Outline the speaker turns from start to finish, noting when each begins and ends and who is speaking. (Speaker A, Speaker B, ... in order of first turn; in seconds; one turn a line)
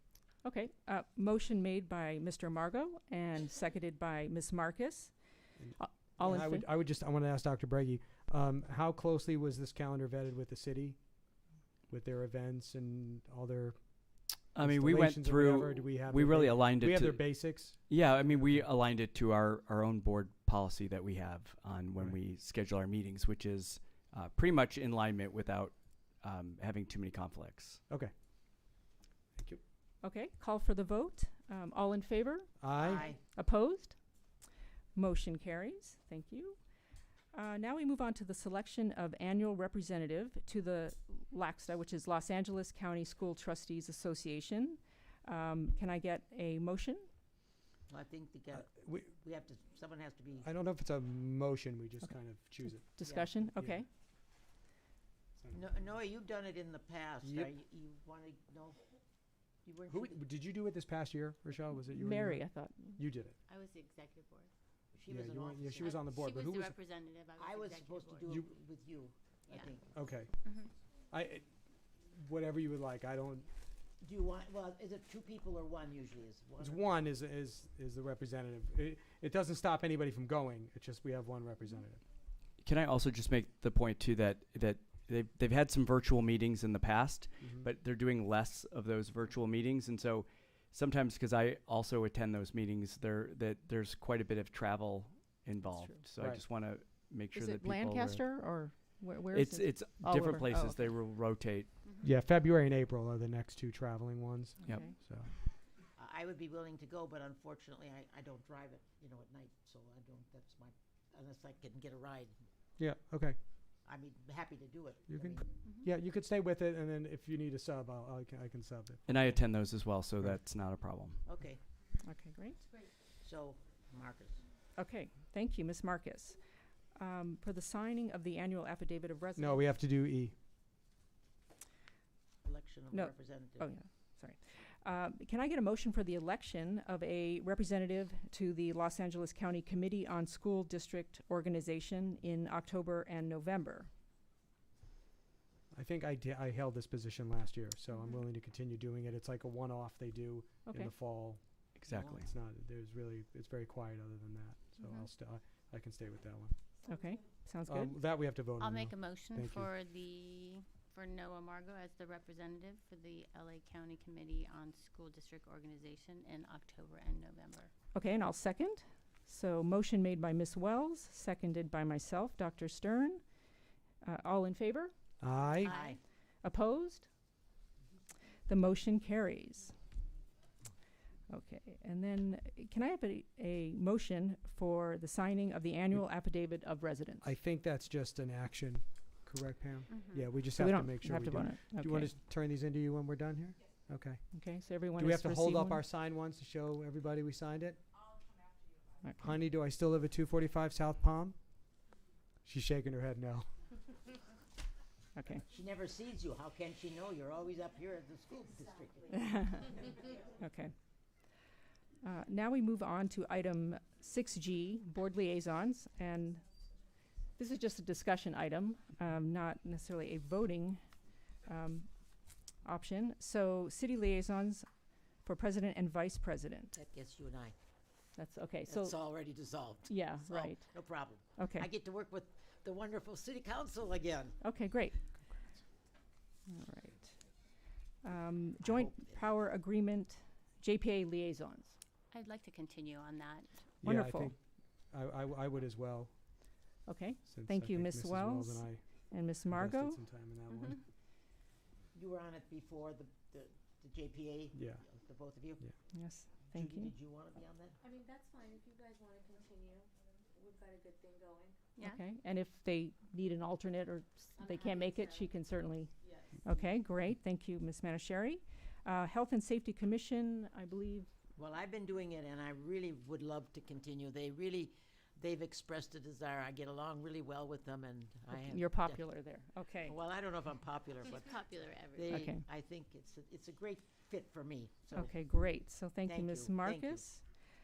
Speaker A: 0.4-5.1
Speaker B: 5.6-11.0
Speaker A: 5.8-6.7
Speaker B: 11.9-13.8
Speaker C: 14.5-27.8
Speaker B: 14.6-18.6
Speaker B: 29.4-29.6
Speaker A: 30.0-32.6
Speaker B: 32.6-33.1
Speaker D: 32.8-33.2
Speaker A: 33.2-34.0
Speaker A: 35.0-36.6
Speaker A: 37.3-47.1
Speaker D: 47.9-50.5
Speaker B: 48.6-49.1
Speaker B: 50.4-52.9
Speaker A: 52.6-53.9
Speaker D: 53.0-53.4
Speaker B: 53.5-53.8
Speaker D: 55.5-58.8
Speaker B: 57.2-57.5
Speaker D: 59.6-60.2
Speaker B: 59.9-62.5
Speaker A: 61.9-63.0
Speaker B: 63.0-63.4
Speaker E: 63.5-64.5
Speaker D: 65.0-66.0
Speaker B: 65.1-66.8
Speaker E: 65.8-68.3
Speaker D: 67.4-69.9
Speaker E: 69.5-69.7
Speaker B: 69.9-70.3
Speaker E: 70.4-70.7
Speaker B: 71.1-73.5
Speaker D: 74.0-76.9
Speaker B: 76.6-82.0
Speaker C: 82.6-98.3
Speaker B: 87.4-87.7
Speaker A: 95.6-96.0
Speaker B: 96.2-96.4
Speaker A: 97.3-100.9
Speaker C: 99.3-101.8
Speaker B: 102.0-105.3
Speaker A: 104.6-105.0
Speaker D: 106.0-112.3
Speaker B: 112.8-113.4
Speaker D: 113.8-115.5
Speaker B: 115.1-119.2
Speaker C: 119.1-121.2
Speaker D: 121.2-121.6
Speaker A: 122.0-122.6
Speaker D: 123.2-124.4
Speaker A: 124.8-126.4
Speaker A: 127.0-129.7
Speaker B: 129.4-130.3
Speaker D: 132.4-133.7
Speaker A: 132.9-143.9
Speaker B: 145.7-151.4
Speaker A: 150.7-150.9
Speaker C: 151.8-152.3
Speaker B: 152.0-156.5
Speaker E: 154.8-155.1
Speaker A: 156.9-158.0
Speaker B: 157.7-159.7
Speaker E: 158.6-167.7
Speaker A: 167.9-173.2
Speaker A: 174.0-174.9
Speaker B: 175.2-175.7
Speaker E: 175.6-176.0
Speaker D: 175.6-176.0
Speaker A: 176.4-177.1
Speaker A: 178.5-179.8
Speaker A: 181.3-187.3
Speaker B: 187.2-194.2
Speaker E: 189.9-190.5
Speaker A: 190.5-192.1
Speaker A: 194.3-195.8
Speaker B: 195.0-197.8
Speaker A: 199.0-199.4
Speaker B: 199.2-201.4
Speaker B: 202.4-203.5
Speaker A: 205.2-205.4
Speaker D: 205.5-210.1
Speaker A: 209.1-209.7
Speaker A: 210.4-210.7
Speaker A: 212.0-216.4
Speaker A: 217.4-220.8
Speaker A: 221.4-221.9
Speaker A: 222.6-224.7
Speaker A: 225.2-226.8
Speaker D: 226.7-227.6
Speaker A: 228.2-229.0
Speaker D: 228.7-234.4
Speaker A: 229.8-230.7
Speaker A: 231.3-231.7
Speaker A: 234.4-235.1
Speaker A: 236.5-237.2
Speaker A: 238.0-241.8
Speaker D: 238.6-239.4
Speaker E: 242.1-243.6
Speaker B: 243.8-244.4
Speaker A: 243.8-244.3
Speaker B: 244.9-246.1
Speaker A: 246.9-250.0
Speaker B: 247.3-248.8
Speaker B: 249.5-250.8
Speaker E: 250.5-250.8
Speaker D: 251.9-255.7
Speaker B: 254.5-254.8
Speaker A: 255.9-256.9
Speaker D: 256.5-257.8
Speaker F: 257.8-261.6
Speaker A: 261.8-265.9
Speaker F: 264.4-265.3
Speaker F: 266.1-266.6
Speaker A: 266.4-271.1
Speaker D: 271.4-279.1
Speaker A: 278.3-280.0
Speaker D: 279.8-285.1
Speaker E: 281.0-282.3
Speaker A: 282.1-282.4
Speaker A: 284.9-287.2
Speaker D: 286.1-287.1